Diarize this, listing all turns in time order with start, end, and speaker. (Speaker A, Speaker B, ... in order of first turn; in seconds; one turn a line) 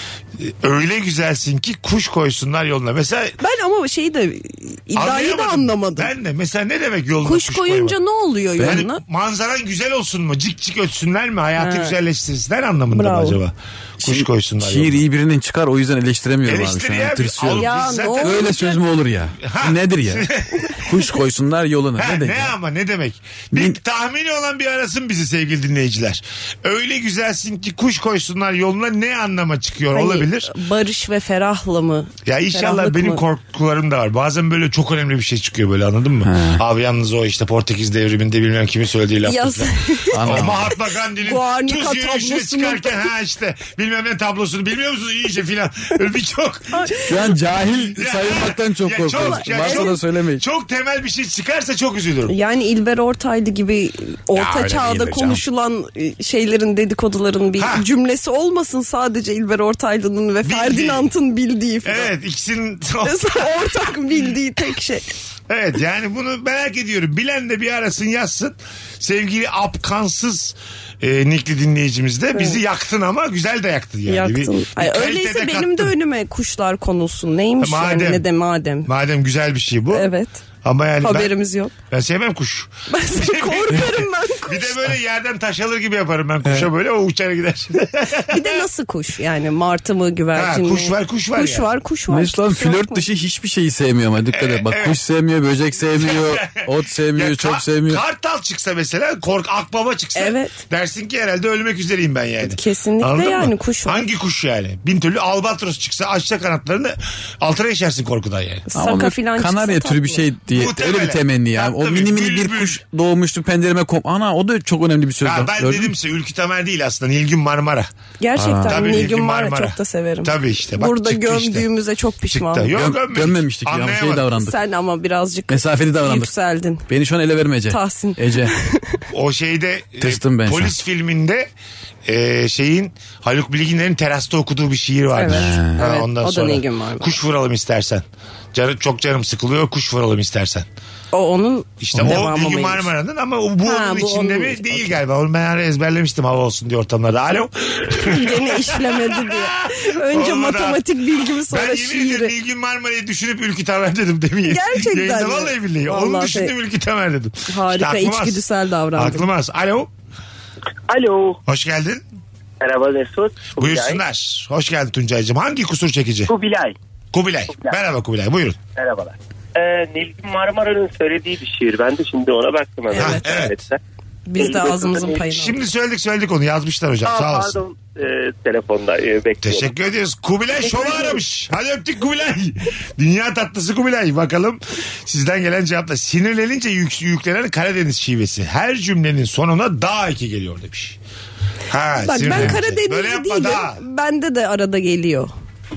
Speaker A: 0.4-3.4
Speaker B: 3.4-6.1
Speaker A: 4.9-8.0
Speaker B: 7.2-9.0
Speaker A: 8.6-15.0
Speaker B: 11.6-12.0
Speaker B: 12.9-13.4
Speaker C: 14.0-22.5
Speaker A: 16.4-18.5
Speaker B: 17.5-18.8
Speaker A: 19.4-20.5
Speaker A: 22.0-30.5
Speaker B: 29.9-33.2
Speaker A: 32.2-46.9
Speaker C: 36.2-36.6
Speaker B: 39.2-43.0
Speaker C: 40.1-40.7
Speaker B: 46.7-47.3
Speaker C: 47.0-50.4
Speaker A: 47.9-52.3
Speaker B: 49.1-50.0
Speaker B: 52.3-62.1
Speaker A: 54.4-55.4
Speaker A: 57.6-57.8
Speaker A: 60.4-61.1
Speaker A: 61.8-63.7
Speaker B: 63.0-65.1
Speaker A: 65.5-75.9
Speaker B: 72.3-72.6
Speaker B: 74.1-78.9
Speaker A: 77.6-78.2
Speaker A: 78.8-80.1
Speaker B: 79.9-80.4
Speaker A: 80.6-81.3
Speaker B: 81.0-81.7
Speaker A: 81.9-88.6
Speaker B: 82.9-84.9
Speaker B: 88.3-93.0
Speaker A: 90.3-91.7
Speaker C: 92.1-98.0
Speaker A: 94.3-95.0
Speaker A: 96.0-108.7
Speaker B: 100.2-100.6
Speaker B: 102.4-104.0
Speaker B: 108.7-110.2
Speaker C: 108.7-115.9
Speaker A: 110.5-112.8
Speaker A: 115.2-117.9
Speaker B: 118.2-122.7
Speaker C: 118.4-118.9
Speaker A: 118.6-121.7
Speaker A: 122.3-124.3
Speaker C: 122.7-124.5
Speaker B: 124.3-126.8
Speaker C: 125.5-126.3
Speaker C: 126.9-128.5
Speaker B: 127.7-129.0
Speaker A: 129.1-131.5
Speaker C: 130.0-130.7
Speaker A: 132.1-140.7
Speaker B: 135.1-137.2
Speaker C: 135.3-135.8
Speaker B: 141.1-142.9
Speaker A: 141.8-150.8
Speaker B: 143.6-144.9
Speaker B: 147.9-152.3
Speaker A: 151.5-159.9
Speaker B: 154.4-156.5
Speaker B: 157.5-159.3
Speaker D: 160.9-161.4
Speaker A: 161.4-162.0
Speaker D: 162.6-164.0
Speaker A: 163.6-166.3
Speaker D: 166.3-166.7
Speaker A: 167.1-168.6
Speaker D: 167.5-167.8
Speaker D: 168.8-173.8
Speaker B: 172.9-173.3
Speaker A: 172.9-173.6
Speaker B: 174.2-175.6
Speaker D: 174.3-175.3
Speaker A: 175.2-177.6
Speaker D: 177.0-179.7
Speaker A: 179.4-191.0
Speaker D: 180.7-181.2
Speaker A: 191.7-193.8
Speaker B: 192.0-195.3